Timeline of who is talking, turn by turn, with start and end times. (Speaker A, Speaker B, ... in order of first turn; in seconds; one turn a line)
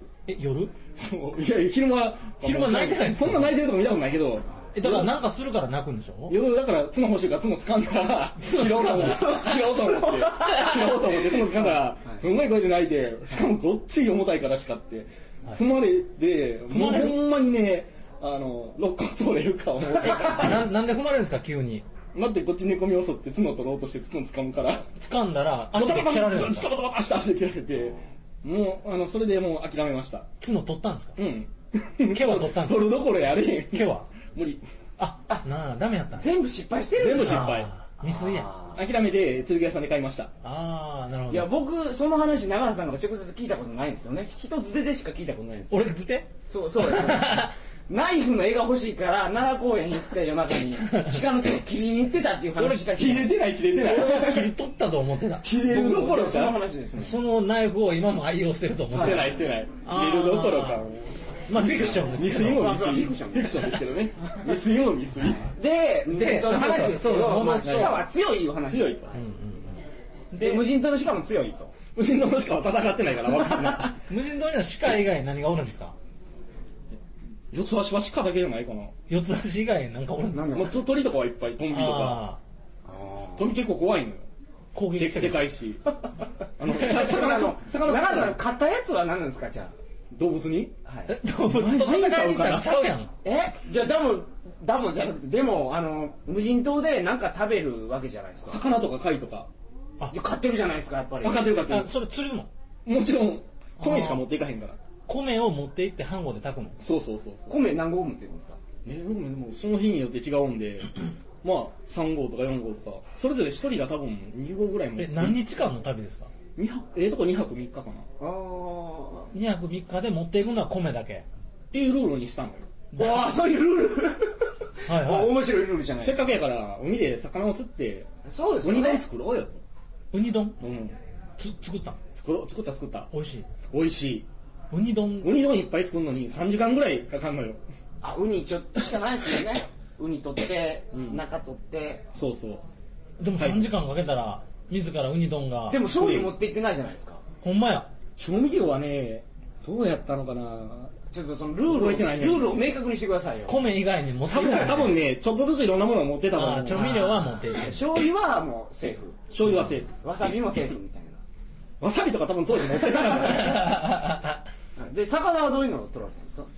Speaker A: 0.3-0.8
Speaker B: 1.0-5.1
Speaker A: 2.4-3.6
Speaker A: 4.7-6.4
Speaker B: 6.3-20.7
Speaker A: 8.4-9.4
Speaker C: 8.8-12.2
Speaker A: 16.7-17.2
Speaker A: 20.0-21.9
Speaker B: 22.1-24.9
Speaker A: 25.0-26.7
Speaker B: 25.7-30.3
Speaker A: 30.4-31.2
Speaker B: 31.2-34.6
Speaker A: 32.1-33.0
Speaker A: 33.7-34.1
Speaker A: 35.0-36.3
Speaker C: 36.2-38.8
Speaker B: 37.0-37.7
Speaker A: 37.1-38.5
Speaker B: 38.8-40.3
Speaker A: 40.4-41.5
Speaker C: 41.3-45.8
Speaker A: 45.7-47.5
Speaker C: 46.5-53.4
Speaker A: 50.9-51.2
Speaker A: 52.6-53.1
Speaker B: 52.9-54.5
Speaker A: 53.7-55.5
Speaker B: 55.4-56.6
Speaker C: 55.6-57.2
Speaker A: 57.0-60.9
Speaker C: 58.9-59.3
Speaker B: 58.9-65.5
Speaker A: 61.5-62.9
Speaker C: 61.5-64.4
Speaker C: 65.2-69.2
Speaker A: 66.1-68.0
Speaker B: 67.6-68.1
Speaker B: 68.7-69.1
Speaker A: 69.1-69.8
Speaker A: 70.3-70.6
Speaker C: 70.3-71.7
Speaker B: 72.0-74.0
Speaker C: 73.6-73.9
Speaker A: 74.0-76.0
Speaker B: 77.5-79.0
Speaker A: 79.1-80.8
Speaker C: 80.3-80.8
Speaker B: 80.5-82.2
Speaker A: 81.7-82.4
Speaker C: 82.8-83.5
Speaker B: 83.4-84.3
Speaker A: 84.7-85.5
Speaker B: 85.0-85.9
Speaker B: 86.6-88.4
Speaker C: 86.6-89.7
Speaker B: 90.1-90.7
Speaker C: 90.8-91.1
Speaker A: 91.1-93.1
Speaker B: 91.5-92.8
Speaker C: 93.2-98.6
Speaker B: 98.5-99.5
Speaker C: 100.1-101.6
Speaker B: 101.2-101.9
Speaker A: 101.6-102.5
Speaker B: 102.8-104.8
Speaker A: 103.8-104.2
Speaker A: 105.1-106.8
Speaker B: 106.8-107.7
Speaker C: 107.5-108.6
Speaker B: 108.8-110.9
Speaker B: 111.4-115.4
Speaker A: 115.0-116.3
Speaker B: 116.6-118.1
Speaker C: 118.2-119.3
Speaker A: 119.3-121.2
Speaker B: 121.7-122.7
Speaker A: 122.9-123.3
Speaker C: 122.9-126.3
Speaker A: 124.9-125.4
Speaker B: 126.0-128.1
Speaker C: 128.2-129.0
Speaker B: 128.6-129.6
Speaker A: 130.1-130.6
Speaker B: 130.6-131.0
Speaker A: 131.4-132.0
Speaker B: 132.2-133.1
Speaker A: 133.1-133.5
Speaker B: 133.7-134.3
Speaker A: 134.7-135.4
Speaker B: 135.2-137.6
Speaker C: 138.0-142.1
Speaker B: 140.9-141.2
Speaker B: 142.1-142.6
Speaker A: 143.2-146.3
Speaker B: 143.4-143.7
Speaker C: 145.7-147.2
Speaker A: 147.4-147.9
Speaker B: 148.2-150.9
Speaker C: 151.1-153.6
Speaker B: 151.7-152.7
Speaker A: 153.5-155.0
Speaker B: 154.3-156.9
Speaker A: 156.3-157.9
Speaker C: 156.7-159.2
Speaker B: 159.3-159.9
Speaker C: 160.0-161.2
Speaker B: 161.8-163.9
Speaker A: 163.0-164.4
Speaker C: 164.8-166.5